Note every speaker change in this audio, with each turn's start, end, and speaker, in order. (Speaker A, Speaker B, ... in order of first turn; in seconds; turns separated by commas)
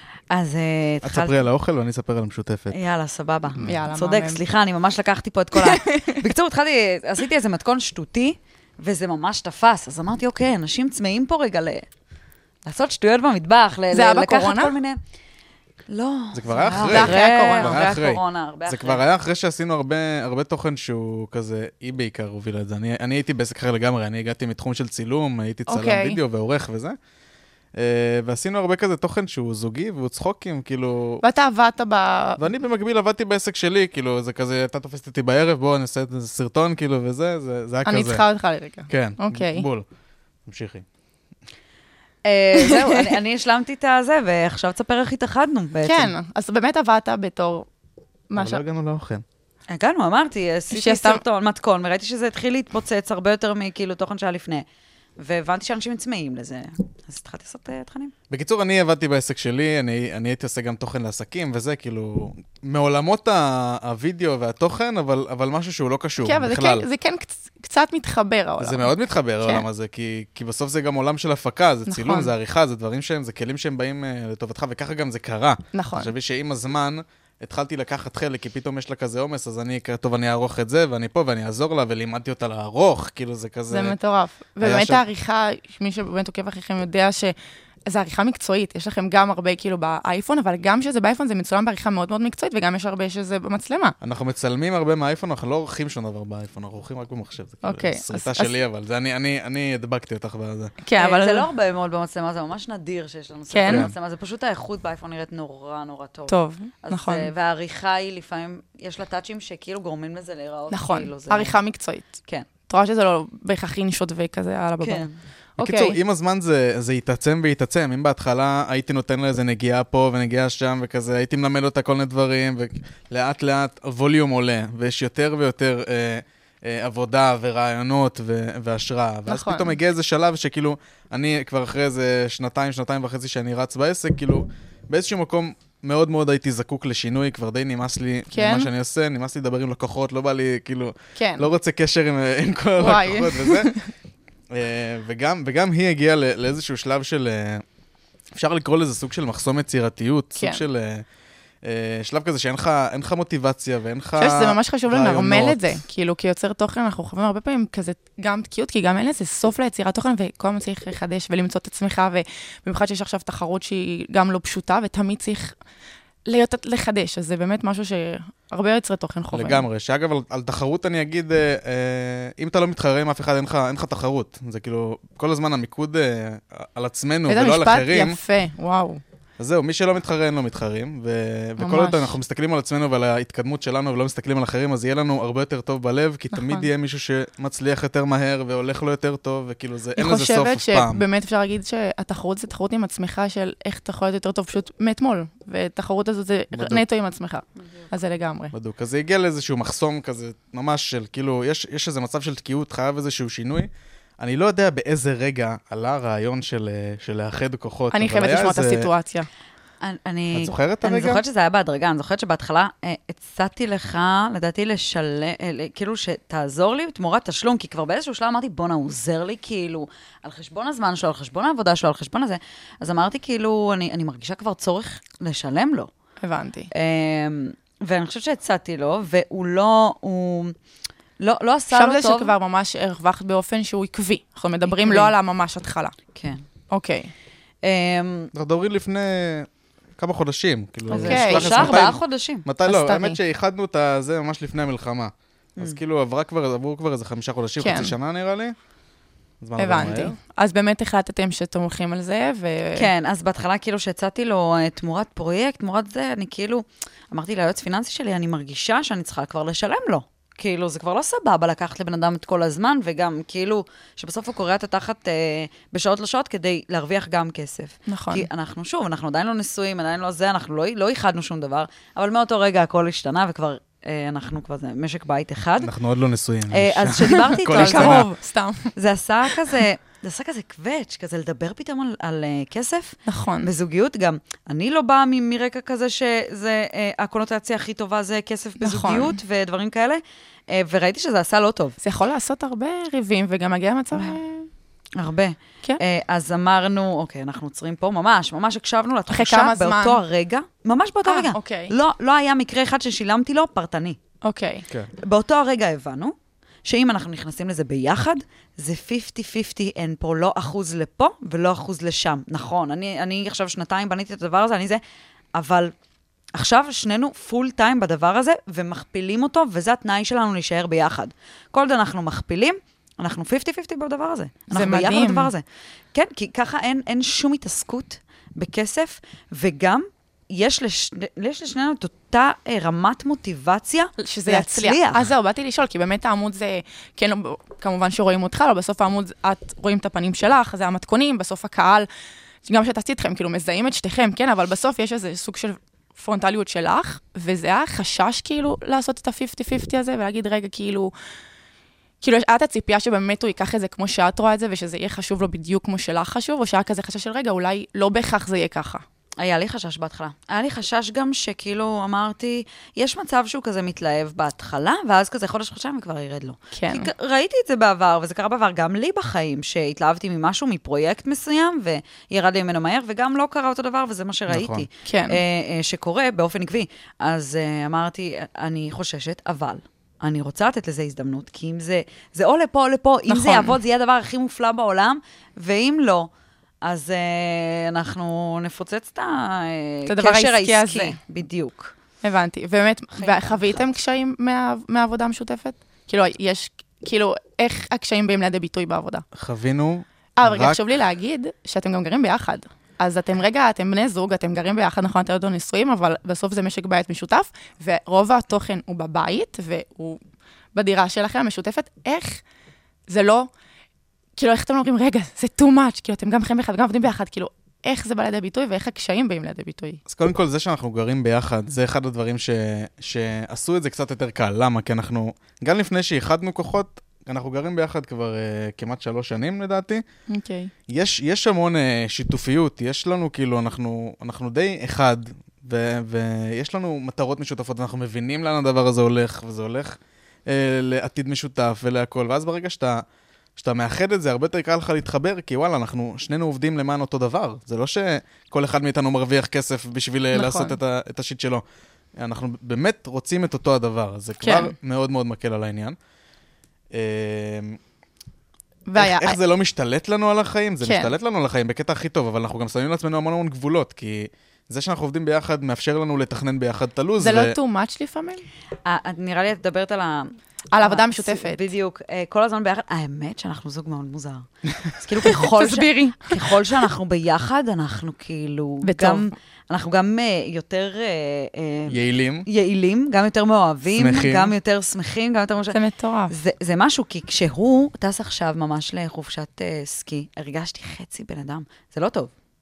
Speaker A: 0.3-1.4, Speaker B: 1.0-2.8, Speaker A: 2.7-11.9, Speaker C: 3.6-4.4, Speaker C: 5.5-6.2, Speaker A: 12.7-15.0, Speaker C: 13.9-14.7, Speaker A: 15.9-19.0, Speaker B: 16.3-27.0, Speaker C: 16.8-17.8, Speaker C: 25.7-26.2, Speaker B: 27.8-31.2, Speaker C: 31.2-32.4, Speaker B: 32.4-38.2, Speaker C: 37.9-39.7, Speaker B: 38.9-39.9, Speaker B: 40.5-40.8, Speaker A: 42.2-46.1, Speaker C: 42.6-43.1, Speaker C: 45.9-47.7, Speaker C: 48.3-48.6, Speaker B: 48.3-49.2, Speaker A: 49.7-54.6, Speaker C: 50.7-51.2, Speaker A: 55.2-58.1, Speaker B: 58.3-66.9, Speaker C: 66.2-69.7, Speaker B: 68.6-84.0, Speaker C: 71.9-72.3, Speaker C: 75.7-76.1, Speaker C: 83.7-87.3, Speaker B: 84.6-85.0, Speaker C: 87.9-94.0, Speaker B: 94.0-100.7, Speaker C: 97.6-98.5, Speaker C: 100.8-101.5, Speaker A: 101.0-111.6, Speaker C: 103.5-103.9, Speaker B: 103.7-103.9, Speaker C: 106.3-107.3, Speaker C: 110.7-112.1, Speaker C: 112.7-115.0, Speaker A: 114.8-115.1, Speaker C: 115.6-116.0, Speaker B: 115.6-143.7, Speaker C: 129.3-129.8, Speaker C: 138.3-138.7, Speaker C: 141.2-141.4, Speaker C: 142.8-143.9, Speaker B: 144.5-147.6, Speaker B: 148.3-151.1, Speaker C: 150.4-150.6, Speaker B: 151.6-155.8, Speaker C: 154.2-165.6, Speaker C: 166.3-169.6, Speaker B: 169.3-178.2, Speaker C: 177.3-179.0, Speaker B: 179.4-191.1, Speaker C: 181.6-182.2, Speaker C: 186.3-186.7, Speaker C: 190.0-198.5, Speaker B: 196.5-196.8, Speaker B: 198.5-208.9, Speaker C: 207.9-209.3, Speaker A: 209.8-225.9, Speaker B: 210.3-211.2, Speaker C: 226.2-226.7, Speaker A: 226.7-230.6, Speaker A: 231.2-232.3, Speaker C: 231.7-235.9, Speaker A: 234.7-235.1, Speaker A: 236.2-236.4, Speaker C: 236.7-237.1, Speaker A: 237.6-238.3, Speaker B: 238.3-248.6, Speaker C: 240.9-241.9, Speaker A: 240.9-242.4, Speaker C: 242.7-243.2, Speaker C: 247.6-247.9, Speaker B: 249.4-250.2, Speaker C: 249.6-252.9, Speaker A: 252.8-275.7, Speaker C: 267.9-268.3, Speaker B: 275.6-278.1, Speaker A: 276.5-278.1, Speaker C: 277.1-278.7, Speaker A: 278.8-291.8, Speaker C: 283.1-283.5, Speaker C: 288.6-289.2, Speaker C: 291.8-294.5, Speaker A: 295.0-304.0, Speaker C: 299.1-300.0, Speaker C: 301.1-301.7, Speaker C: 304.2-304.7, Speaker A: 305.0-314.8, Speaker A: 315.4-315.7, Speaker A: 316.4-325.4, Speaker C: 324.5-325.3, Speaker A: 325.9-335.1, Speaker C: 334.0-341.9, Speaker C: 342.4-350.9, Speaker C: 352.0-358.8, Speaker A: 359.2-386.1, Speaker C: 366.5-366.9, Speaker B: 374.3-374.7, Speaker C: 374.9-375.2, Speaker C: 383.1-383.6, Speaker A: 386.6-391.7, Speaker C: 389.9-391.0, Speaker C: 392.0-399.1, Speaker A: 392.9-393.6, Speaker B: 399.1-400.6, Speaker C: 400.2-410.0, Speaker C: 410.6-412.2, Speaker C: 412.9-413.3, Speaker C: 414.2-419.8, Speaker B: 419.9-429.8, Speaker C: 430.1-430.5, Speaker B: 430.7-442.8, Speaker B: 443.4-451.4, Speaker C: 450.1-450.6, Speaker B: 452.0-455.8, Speaker C: 454.2-454.5, Speaker B: 456.7-457.6, Speaker C: 458.7-459.2, Speaker B: 458.8-467.4, Speaker C: 460.6-460.9, Speaker C: 467.0-468.2, Speaker A: 468.6-474.3, Speaker C: 470.5-471.4, Speaker A: 474.8-485.6, Speaker C: 475.1-476.4, Speaker C: 478.6-479.1, Speaker B: 481.7-482.3, Speaker B: 483.8-484.3, Speaker C: 485.5-486.1, Speaker A: 486.1-492.1